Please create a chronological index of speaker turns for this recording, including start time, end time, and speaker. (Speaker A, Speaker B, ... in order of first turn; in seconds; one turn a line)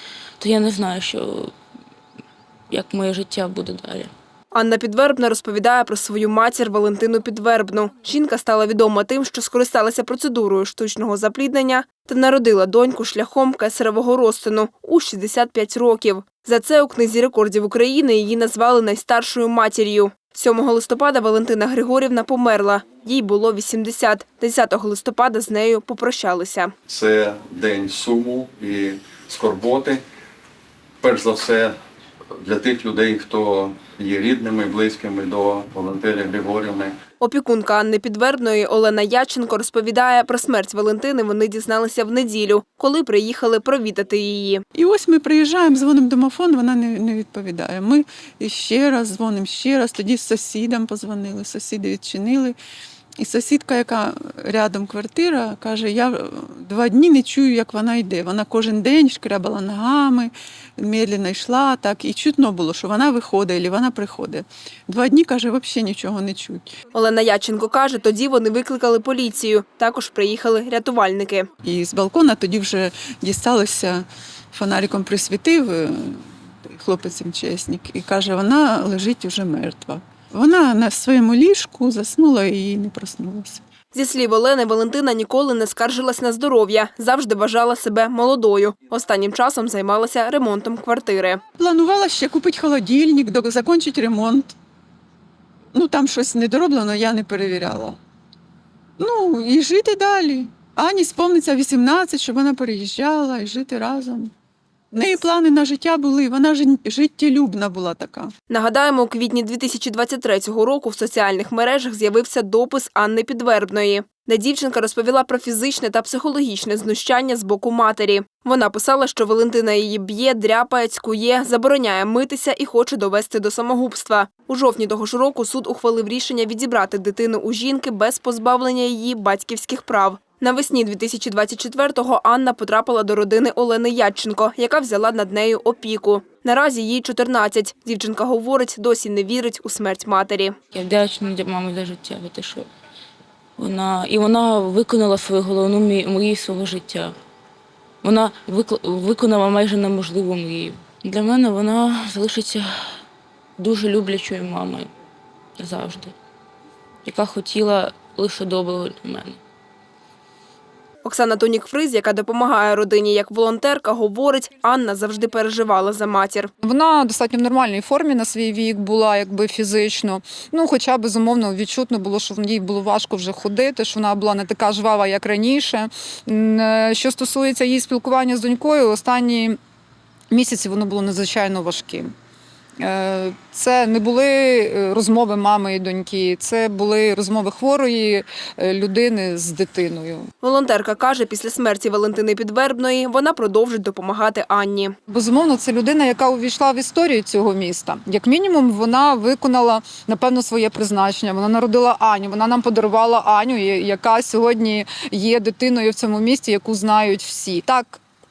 Speaker A: 0.4-1.5
Speaker A: 2.7-4.1
Speaker B: 4.5-26.7
Speaker C: 26.9-30.0
Speaker C: 31.0-31.8
Speaker C: 32.4-37.0
Speaker B: 37.2-44.6
Speaker D: 44.7-52.6
Speaker D: 53.2-66.7
Speaker B: 67.0-71.5
Speaker D: 71.6-83.6
Speaker B: 83.9-91.4
Speaker D: 91.6-94.5
Speaker D: 95.7-98.0
Speaker D: 99.0-104.3
Speaker D: 104.9-108.3
Speaker B: 108.5-140.6
Speaker A: 140.7-142.7
Speaker A: 143.6-147.1
Speaker A: 148.0-152.7
Speaker A: 153.6-154.9
Speaker A: 155.6-156.1
Speaker A: 157.1-159.4
Speaker B: 161.0-166.5
Speaker E: 166.6-179.6
Speaker E: 180.3-182.1
Speaker E: 182.8-190.3
Speaker B: 190.4-194.9
Speaker E: 195.1-208.0